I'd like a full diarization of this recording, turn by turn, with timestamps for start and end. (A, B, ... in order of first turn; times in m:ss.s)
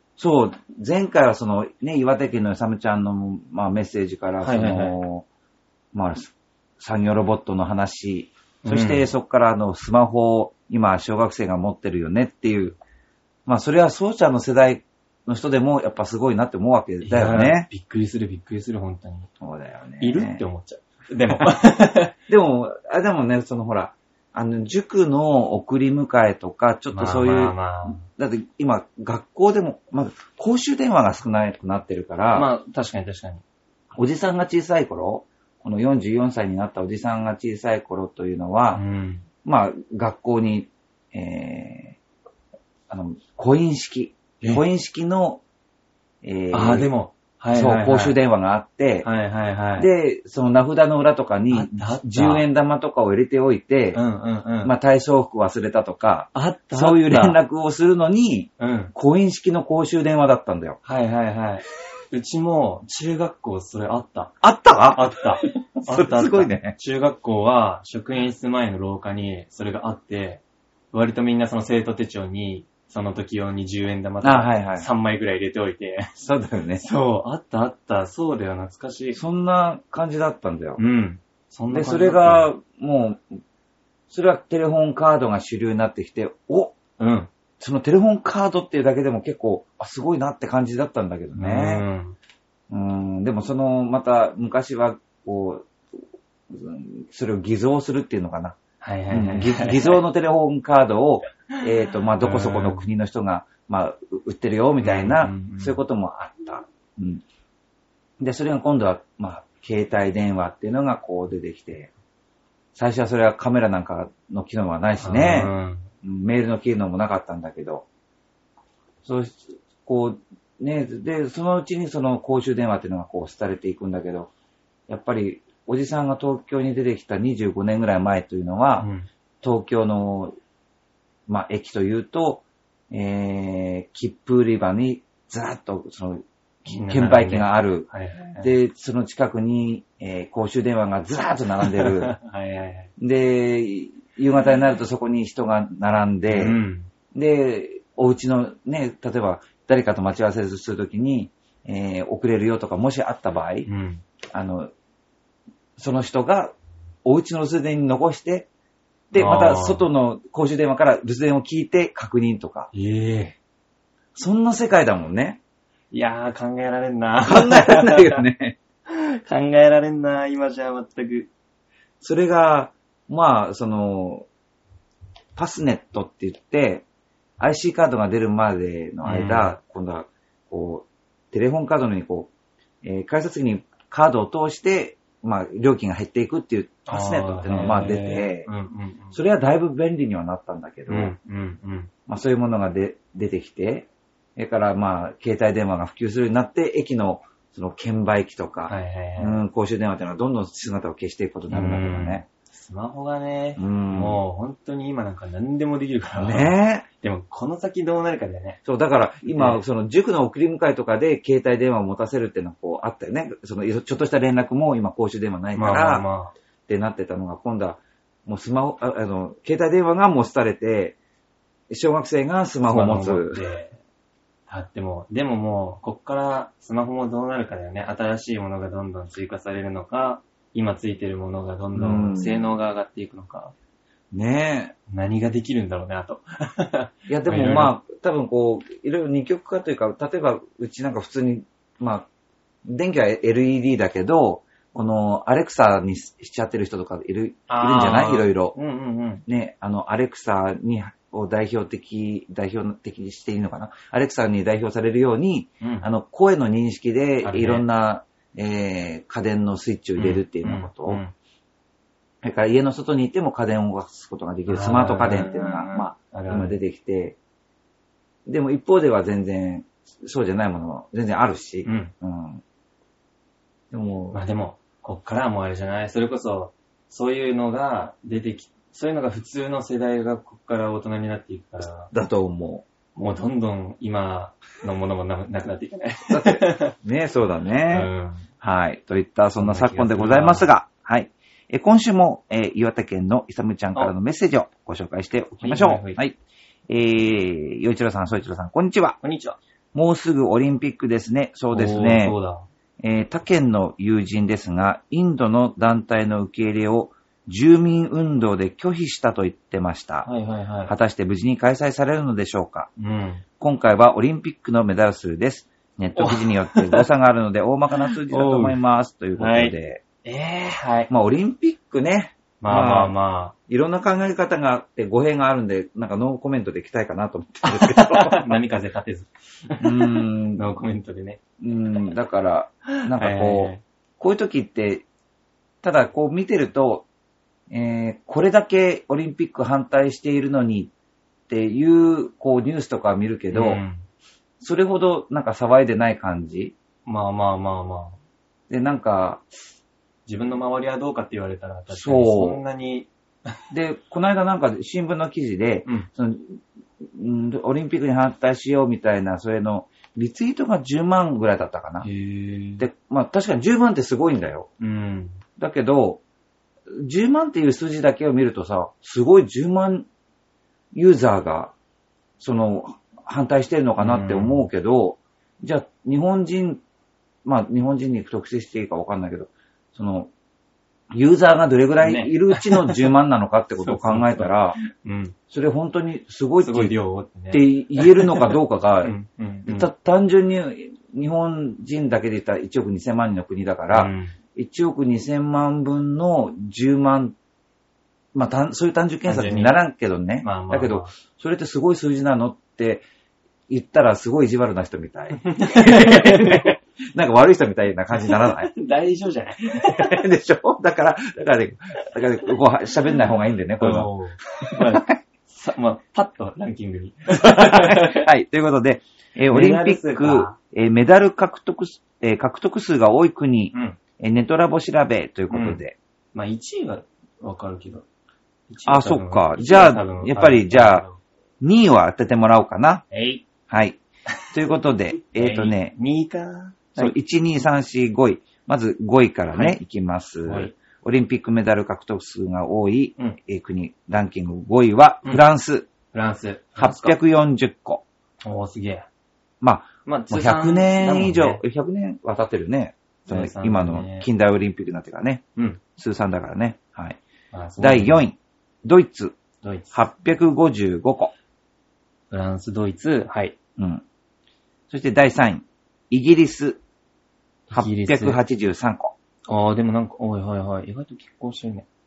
0:00.2-0:05.3 A
0:04.4-0:05.0 B
0:05.9-0:12.8 A
0:08.6-0:09.1 B
0:13.4-0:17.7 A
0:17.0-0:19.3 B
0:19.4-0:20.4 A
0:20.0-0:22.1 B
0:22.3-0:32.5 A
0:26.9-0:28.0 B
0:32.3-0:33.4 B
0:34.0-0:38.8 A
0:38.7-0:39.2 B
0:39.4-0:42.0 A
0:42.9-0:45.4 A
0:46.2-0:46.9 A
0:46.5-0:48.2 B
0:47.5-0:49.1 A
0:49.0-0:49.9 B
0:49.8-0:54.0 A
0:51.5-0:52.4 B
0:53.9-0:54.7 B
0:54.6-1:00.8 A
0:56.3-0:57.4 B
0:58.6-0:58.9 B
1:00.8-1:04.3 B
1:04.4-1:06.8 A
1:04.9-1:16.1 B
1:14.2-1:14.9 A
1:16.2-1:16.8 A
1:16.8-1:19.2 B
1:19.1-1:20.8 A
1:20.8-1:22.5 B
1:21.7-1:23.4 A
1:24.1-1:26.8 A
1:27.0-1:27.3 B
1:27.6-1:31.8 A
1:31.4-1:32.2 B
1:32.7-1:35.7 A
1:36.5-1:38.6 A
1:38.8-1:40.0 B
1:39.1-1:47.2 A
1:41.6-1:42.8 B
1:44.8-1:45.8 B
1:48.2-1:51.9 A
1:52.7-1:55.5 A
1:55.0-1:55.9 B
1:56.0-1:57.8 A
1:59.0-2:04.3 A
2:04.9-2:08.9 A
2:08.8-2:09.1 B
2:09.4-2:10.3 A
2:11.3-2:22.1 A
2:16.7-2:18.5 B
2:21.6-2:22.9 B
2:23.0-2:26.6 A
2:26.3-2:26.9 B
2:27.1-2:33.7 A
2:33.6-2:34.0 B
2:34.3-2:34.7 A
2:35.8-2:38.5 A
2:39.1-2:42.7 A
2:39.1-2:39.9 B
2:42.7-2:43.4 B
2:44.1-2:45.4 A
2:45.9-2:48.2 B
2:47.2-2:48.6 A
2:48.9-2:51.3 B
2:52.0-2:54.3 A
2:55.4-2:56.8 A
2:57.4-3:02.3 A
2:59.0-2:59.6 B
3:02.8-3:08.5 A
3:06.9-3:09.2 B
3:09.1-3:11.1 A
3:10.9-3:11.9 B
3:12.1-3:22.2 A
3:18.7-3:19.4 B
3:21.5-3:28.6 B
3:23.6-3:24.2 A
3:26.2-3:26.9 A
3:28.6-3:36.1 A
3:29.3-3:29.6 B
3:35.6-3:36.3 B
3:36.7-3:41.0 A
3:41.7-3:43.4 A
3:42.7-3:43.8 B
3:44.5-3:53.5 B
3:51.7-3:52.5 A
3:54.1-3:54.7 A
3:54.9-3:57.7 B
3:57.1-4:02.1 A
4:02.7-4:08.6 A
4:07.5-4:09.2 B
4:09.3-4:21.0 A
4:15.6-4:15.8 B
4:17.2-4:17.6 B
4:20.0-4:21.1 B
4:22.2-4:27.2 A
4:24.5-4:26.6 B
4:28.3-4:32.4 A
4:31.6-4:31.9 B
4:33.7-4:34.2 A
4:34.1-4:41.9 B
4:41.8-4:42.6 A
4:42.9-4:46.7 B
4:46.1-4:47.9 A
4:47.7-4:48.3 B
4:48.4-4:56.2 A
4:49.4-4:50.5 B
4:55.4-4:56.0 B
4:56.7-4:59.0 A
4:59.0-4:59.4 B
4:59.7-5:02.2 A
5:01.5-5:02.4 B
5:02.8-5:10.1 A
5:10.0-5:10.7 B
5:10.7-5:12.7 A
5:12.8-5:13.2 B
5:13.4-5:19.8 A
5:16.0-5:16.9 B
5:17.8-5:18.6 B
5:19.2-5:20.9 B
5:20.9-5:22.9 A
5:22.4-5:23.3 B
5:23.5-5:28.4 A
5:27.5-5:31.2 B
5:29.6-5:30.5 A
5:31.4-5:34.8 A
5:32.8-5:33.6 B
5:35.6-5:36.9 A
5:37.5-5:40.7 A
5:41.3-5:43.6 A
5:43.3-5:43.9 B
5:44.4-5:46.5 A
5:46.8-5:48.0 B
5:48.5-5:49.2 A
5:50.0-5:53.3 B
5:51.7-5:52.4 A
5:53.5-6:01.9 A
6:01.8-6:02.6 B
6:02.6-6:04.5 A
6:04.6-6:05.2 B
6:05.4-6:06.0 A
6:06.7-6:09.9 A
6:10.7-6:11.5 A
6:12.2-6:16.6 A
6:13.8-6:14.5 B
6:17.2-6:20.1 A
6:20.9-6:24.6 A
6:21.8-6:22.9 B
6:23.6-6:25.1 B
6:25.3-6:26.7 A
6:26.4-6:29.7 B
6:27.3-6:28.9 A
6:29.5-6:37.1 A
6:33.7-6:34.2 B
6:38.1-6:42.8 A
6:39.0-6:39.6 B
6:40.2-6:40.9 B
6:43.5-6:48.5 A
6:45.3-6:46.5 B
6:48.0-6:50.0 B
6:49.7-6:55.0 A
6:53.6-6:58.1 B
6:57.2-7:05.8 A
6:59.3-7:00.4 B
7:03.5-7:03.8 B
7:05.3-7:05.6 B
7:06.1-7:07.8 B
7:08.5-7:11.0 B
7:08.6-7:10.9 A
7:11.4-7:12.8 A
7:12.9-7:13.2 B
7:13.5-7:13.8 A
7:14.3-7:15.7 A
7:15.2-7:16.9 B
7:16.8-7:25.7 A
7:20.2-7:20.5 B
7:25.9-7:27.0 B
7:26.6-7:27.8 A
7:28.2-7:28.9 B
7:29.4-7:35.2 A
7:29.8-7:31.4 B
7:33.1-7:34.1 B
7:35.8-7:37.0 A
7:37.3-7:38.0 B
7:37.6-7:39.2 A
7:39.4-7:39.8 B
7:39.7-7:41.1 A
7:42.1-7:43.4 B
7:43.6-7:43.8 A
7:44.7-7:46.6 A
7:47.5-7:48.2 B
7:47.5-7:48.9 A
7:49.3-7:51.6 B